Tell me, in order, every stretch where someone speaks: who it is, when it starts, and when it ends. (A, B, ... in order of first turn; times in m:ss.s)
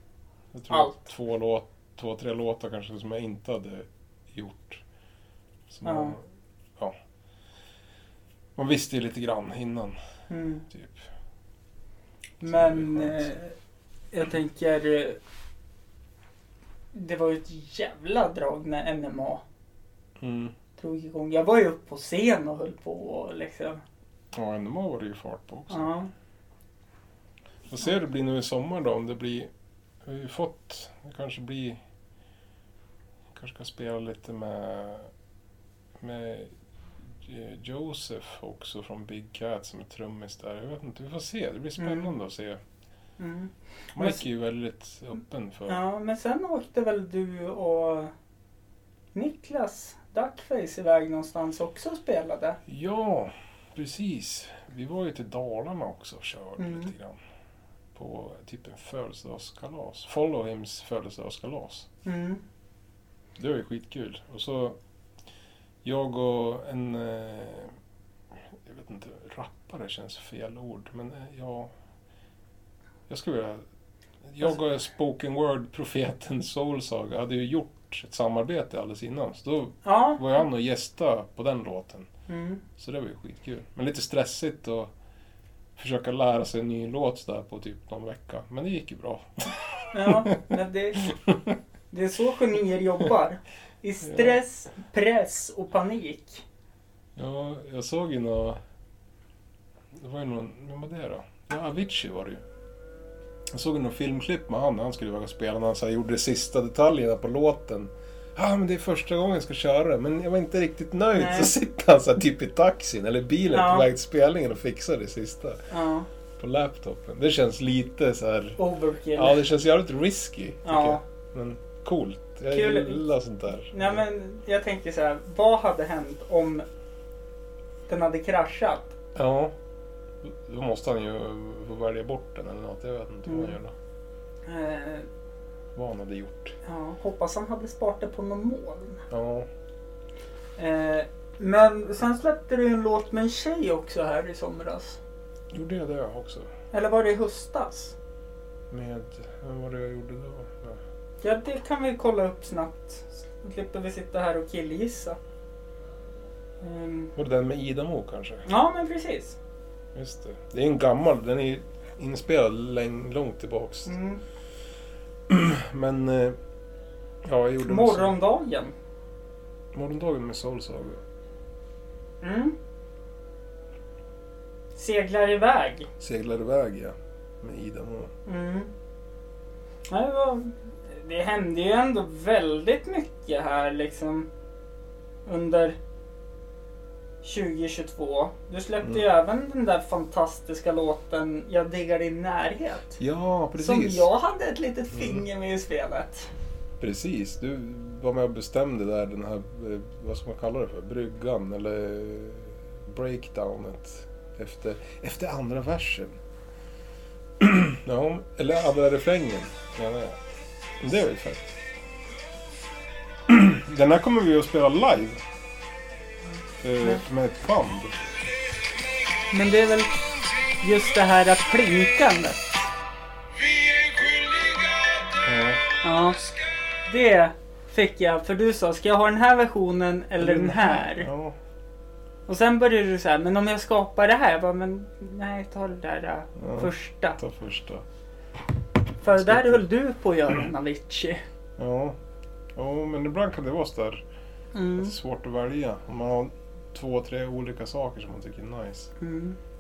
0:00.5-0:04.8 A
0:00.7-0:01.0 B
0:05.7-0:06.2 A
0:05.8-0:06.2 B
0:08.6-0:10.0 A
0:10.3-0:10.7 B
0:10.7-0:11.1 A
0:12.4-0:13.6 B
0:12.4-0:13.3 A
0:14.1-0:15.2 B
0:16.9-0:19.4 B
0:20.2-0:20.6 A
0:20.8-0:23.8 B
0:24.3-0:25.9 A
0:25.7-0:26.1 B
0:27.7-0:29.5 A
0:30.0-0:31.8 A
0:33.3-0:35.1 A
0:36.0-0:42.6 A
0:41.8-0:42.1 B
0:43.2-0:44.2 B
0:44.0-0:45.8 A
0:45.7-0:48.1 B
0:49.1-0:52.6 B
0:52.7-0:57.2 A
0:56.6-0:56.9 B
0:58.0-1:01.9 A
1:02.0-1:02.4 B
1:03.4-1:04.8 A
1:05.8-1:07.7 A
1:08.3-1:11.7 A
1:13.1-1:13.6 A
1:14.2-1:22.1 A
1:19.8-1:20.2 B
1:22.3-1:22.6 B
1:22.8-1:24.9 A
1:25.8-1:31.5 A
1:29.9-1:31.0 B
1:31.9-1:36.4 B
1:34.0-1:34.4 A
1:37.2-1:38.6 A
1:39.9-1:42.4 A
1:43.5-1:55.6 A
1:51.2-1:51.5 B
1:53.5-1:53.9 B
1:55.7-1:56.1 B
1:56.4-1:58.6 A
1:58.6-1:59.4 B
1:59.1-2:04.0 A
2:00.6-2:01.0 B
2:02.5-2:03.0 B
2:03.7-2:06.7 B
2:07.9-2:09.0 B
2:09.2-2:09.6 A
2:10.2-2:13.7 A
2:13.3-2:13.6 B
2:14.5-2:15.1 B
2:15.8-2:16.6 A
2:16.6-2:19.1 B
2:19.1-2:19.5 A
2:20.6-2:25.0 B
2:25.5-2:26.5 A
2:26.7-2:28.0 B
2:28.7-2:30.8 A
2:31.2-2:35.2 B
2:36.6-2:37.1 B
2:37.2-2:38.5 A
2:38.5-2:39.4 B
2:39.9-2:43.9 A
2:43.9-2:44.2 B
2:45.3-2:46.4 A
2:47.2-2:48.2 A
2:47.6-2:48.7 B
2:49.7-2:51.0 A
2:52.2-2:52.6 B
2:54.8-2:55.9 B
2:56.0-2:58.1 A
2:58.3-2:58.7 B
2:59.9-3:04.3 B
3:05.3-3:05.8 B
3:07.2-3:13.0 B
3:13.0-3:14.1 A
3:13.6-3:16.3 B
3:14.9-3:15.2 A
3:16.8-3:26.2 A
3:27.4-3:30.2 A
3:30.8-3:31.5 A
3:33.3-3:35.2 A
3:36.6-3:38.1 A
3:39.3-3:40.0 B
3:40.6-3:42.7 B
3:45.1-3:45.7 A
3:45.8-3:46.3 B
3:46.8-3:51.1 B
3:50.2-3:51.4 A
3:52.3-3:57.2 B
3:56.4-3:57.8 A
3:59.0-4:01.2 B
3:59.1-3:59.6 A
4:01.6-4:02.0 A
4:02.6-4:04.0 A
4:04.5-4:05.0 B
4:04.8-4:08.9 A
4:09.0-4:09.4 B